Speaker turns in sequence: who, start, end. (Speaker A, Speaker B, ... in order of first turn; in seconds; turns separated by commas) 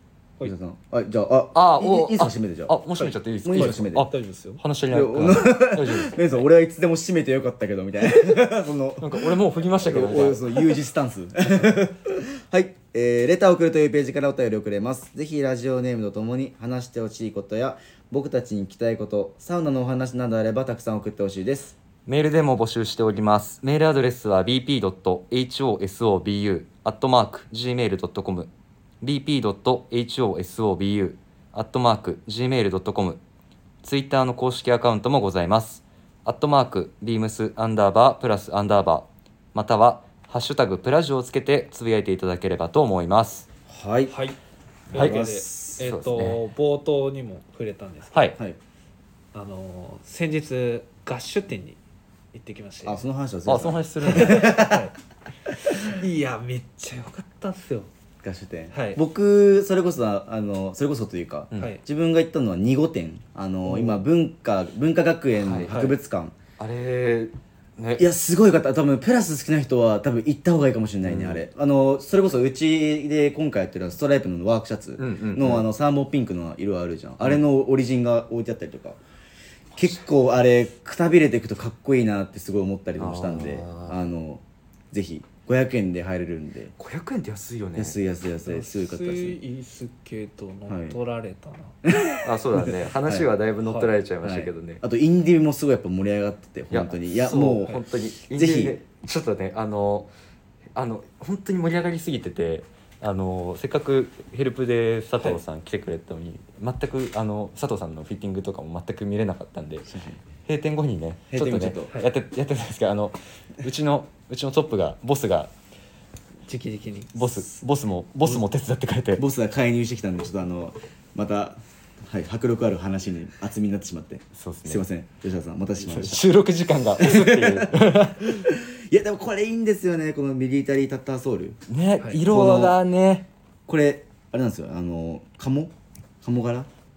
Speaker A: 0.4-2.8, Speaker B: 1.5-6.2, Speaker C: 3.0-4.6, Speaker A: 3.4-4.1, Speaker A: 4.9-21.8, Speaker B: 9.0-10.8, Speaker B: 22.1-33.2, Speaker B: 33.8-43.5, Speaker A: 43.7-44.1, Speaker C: 44.1-44.4, Speaker A: 44.9-45.8, Speaker C: 44.9-48.3, Speaker B: 44.9-45.2, Speaker B: 45.8-46.4, Speaker B: 48.1-48.4, Speaker C: 49.3-51.8, Speaker C: 52.3-53.0, Speaker A: 52.8-54.9, Speaker B: 53.5-54.6, Speaker C: 54.0-54.9, Speaker C: 55.6-57.9, Speaker A: 58.2-66.3, Speaker C: 58.7-59.0, Speaker C: 61.5-61.8, Speaker B: 65.4-65.8, Speaker C: 65.7-66.0, Speaker B: 66.6-68.0, Speaker A: 68.0-79.0, Speaker B: 71.0-71.4, Speaker B: 75.0-75.7, Speaker B: 79.7-80.0, Speaker A: 79.8-86.7, Speaker B: 83.0-84.0, Speaker B: 86.8-88.0, Speaker A: 87.7-89.4, Speaker C: 88.5-91.8, Speaker A: 90.7-91.0, Speaker A: 91.8-93.3, Speaker B: 92.2-94.8, Speaker C: 93.6-93.9, Speaker A: 94.2-98.8, Speaker B: 96.7-100.1, Speaker B: 100.7-109.9, Speaker A: 109.9-110.2, Speaker B: 110.4-115.5, Speaker A: 111.3-111.9, Speaker C: 116.5-117.2, Speaker B: 117.1-119.2, Speaker A: 119.2-126.2, Speaker B: 124.3-124.8, Speaker B: 125.8-128.5, Speaker A: 127.0-131.6, Speaker B: 131.7-133.3, Speaker C: 132.0-132.2, Speaker A: 132.2-132.8, Speaker A: 133.7-136.7